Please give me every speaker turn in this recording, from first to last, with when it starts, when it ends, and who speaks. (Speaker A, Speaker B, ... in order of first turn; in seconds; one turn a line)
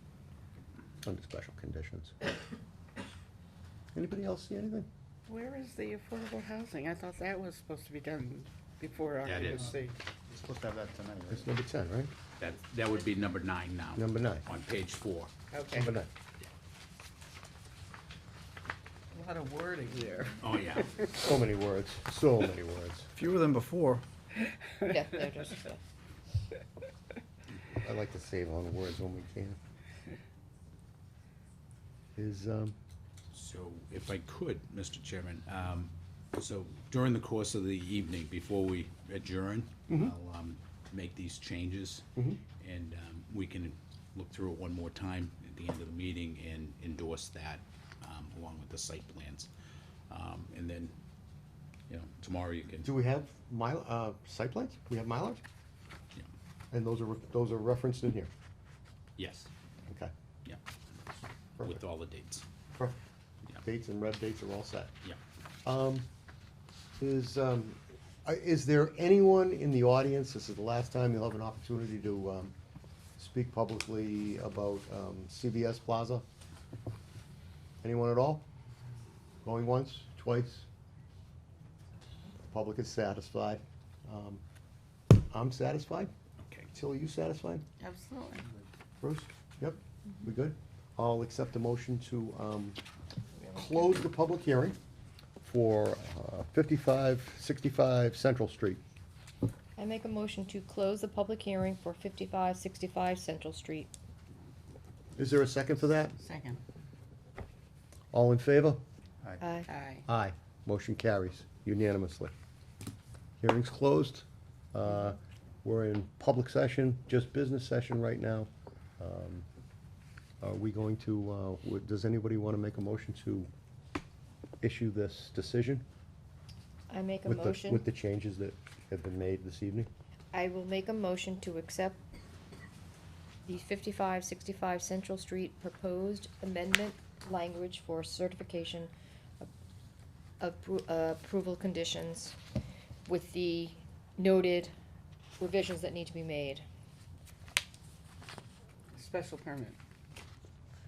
Speaker A: 1.0-2.1
Speaker A: 3.9-4.9
Speaker B: 5.3-9.9
Speaker C: 9.2-9.7
Speaker D: 10.3-11.4
Speaker A: 11.3-12.1
Speaker C: 12.4-15.3
Speaker A: 13.9-14.4
Speaker B: 15.5-15.9
Speaker A: 15.7-16.1
Speaker B: 19.1-20.5
Speaker C: 20.4-20.9
Speaker A: 21.0-23.1
Speaker D: 23.1-24.0
Speaker E: 24.8-25.8
Speaker A: 27.8-29.6
Speaker A: 32.1-32.7
Speaker C: 33.3-42.0
Speaker C: 42.6-49.5
Speaker C: 50.1-51.0
Speaker C: 51.9-52.9
Speaker A: 52.8-55.4
Speaker A: 56.7-58.3
Speaker C: 59.2-59.5
Speaker A: 59.9-60.1
Speaker C: 61.6-62.5
Speaker A: 63.6-64.9
Speaker A: 65.6-66.1
Speaker A: 67.0-72.5
Speaker A: 73.2-76.2
Speaker A: 77.8-78.4
Speaker A: 79.4-80.7
Speaker A: 82.5-84.4
Speaker A: 85.3-86.1
Speaker C: 86.4-86.7
Speaker A: 86.7-87.7
Speaker B: 87.8-88.5
Speaker A: 89.0-92.8
Speaker E: 93.4-93.6
Speaker A: 93.5-94.8
Speaker A: 95.4-98.8
Speaker E: 99.8-103.9
Speaker A: 105.2-106.2
Speaker B: 106.2-106.6
Speaker A: 108.1-108.8
Speaker E: 109.4-109.7
Speaker B: 109.7-110.0
Speaker A: 110.1-112.3
Speaker A: 113.4-118.5
Speaker A: 119.0-119.4
Speaker A: 120.4-123.5
Speaker A: 124.6-125.8
Speaker E: 126.9-127.8
Speaker A: 127.2-129.9
Speaker E: 130.3-132.0
Speaker E: 133.4-139.5
Speaker E: 140.4-142.4
Speaker E: 143.1-144.7
Speaker E: 145.4-146.6
Speaker B: 148.9-149.8